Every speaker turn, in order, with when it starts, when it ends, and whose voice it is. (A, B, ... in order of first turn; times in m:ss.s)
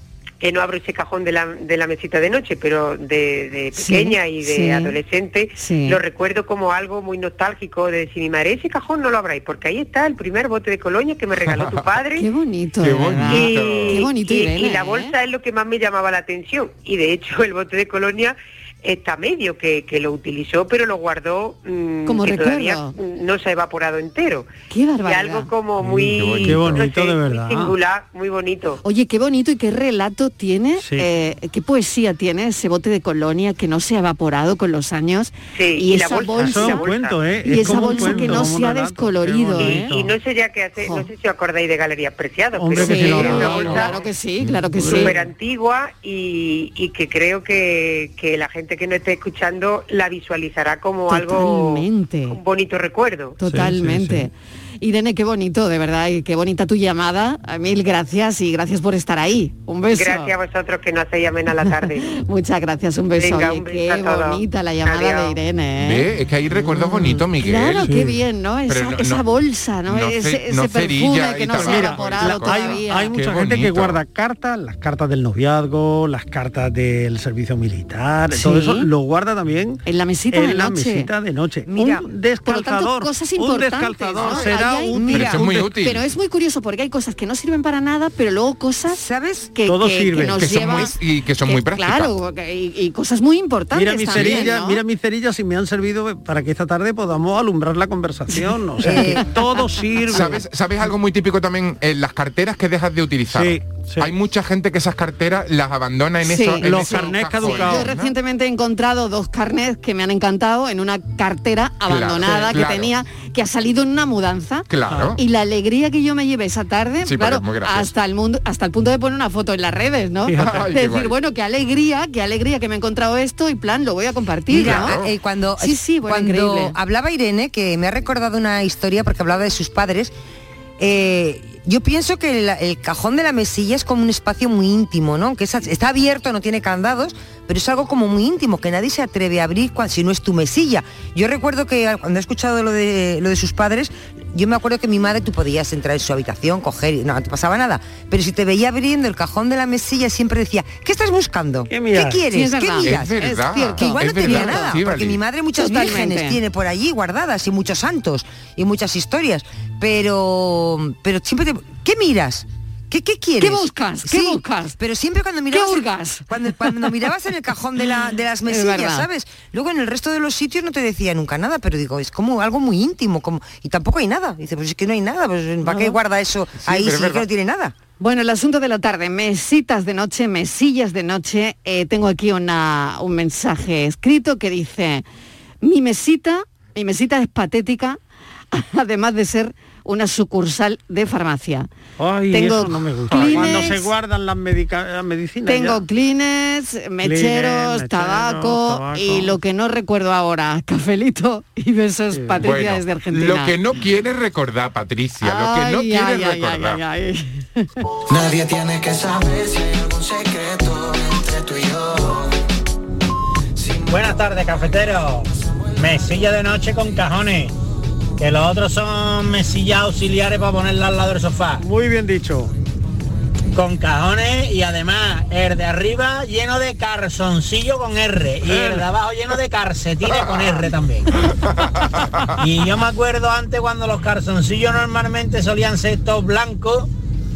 0:00.4-0:12.3 A
0:03.8-0:05.0 B
0:05.6-0:06.0 B
0:11.4-0:11.8 C
0:12.2-0:15.2 B
0:12.8-0:14.0 C
0:13.3-0:24.5 A
0:22.1-0:23.0 B
0:24.7-0:25.5 B
0:25.0-0:28.8 A
0:25.8-0:26.9 C
0:26.3-0:27.8 D
0:28.8-0:36.9 B
0:30.8-0:31.1 D
0:35.5-0:38.3 A
0:36.3-0:40.2 D
0:37.4-0:40.0 B
0:39.6-0:43.9 A
0:42.6-0:45.3 D
0:42.8-0:45.2 B
0:43.3-0:44.0 C
0:44.9-0:53.4 A
0:51.1-0:52.4 B
0:53.4-1:00.3 B
0:53.4-0:54.3 D
0:59.9-1:02.1 A
1:02.0-1:06.1 B
1:03.2-1:05.4 A
1:05.8-1:07.9 C
1:06.6-1:07.2 D
1:07.4-1:13.1 B
1:07.8-1:08.2 D
1:08.7-1:09.2 C
1:09.9-1:14.0 C
1:11.5-1:25.8 D
1:18.3-1:18.9 B
1:19.9-1:21.1 B
1:21.7-1:22.1 E
1:22.4-1:29.0 B
1:24.2-1:25.5 E
1:25.0-1:26.1 C
1:28.9-1:29.5 E
1:29.6-1:34.8 B
1:29.7-1:30.6 D
1:30.3-1:32.2 C
1:33.7-1:40.5 D
1:38.8-1:39.2 E
1:40.1-1:48.1 C
1:43.3-1:44.1 D
1:46.2-2:05.0 B
1:46.6-1:48.0 D
1:51.9-1:52.9 C
1:54.7-1:55.2 C
1:54.9-1:55.2 D
1:57.0-1:57.9 C
2:00.3-2:00.9 D
2:00.4-2:01.2 C
2:04.5-2:10.1 E
2:04.5-2:05.1 C
2:05.6-2:06.8 B
2:10.8-2:57.7 E
2:31.7-2:32.3 D
2:32.3-2:34.8 B
2:32.8-2:35.2 C
2:35.5-2:36.4 B
2:43.4-2:44.8 B
2:45.5-2:46.2 B
2:48.5-2:49.1 B
2:55.7-2:55.9 B
2:56.6-2:57.2 C
2:58.0-3:05.0 B
3:05.6-3:08.0 B
3:08.5-3:11.7 B
3:12.0-3:15.8 D
3:12.3-3:13.9 B
3:15.5-3:23.6 B
3:17.0-3:19.4 D
3:22.1-3:22.5 D
3:22.4-3:26.8 C
3:25.2-3:27.7 B
3:28.1-3:32.4 F
3:33.6-3:34.0 F
3:33.9-3:37.5 G
3:38.2-3:41.6 G
3:41.6-3:42.5 D
3:43.5-3:51.1 G
3:48.4-3:48.9 D
3:51.9-3:52.3 C
3:52.4-3:56.9 G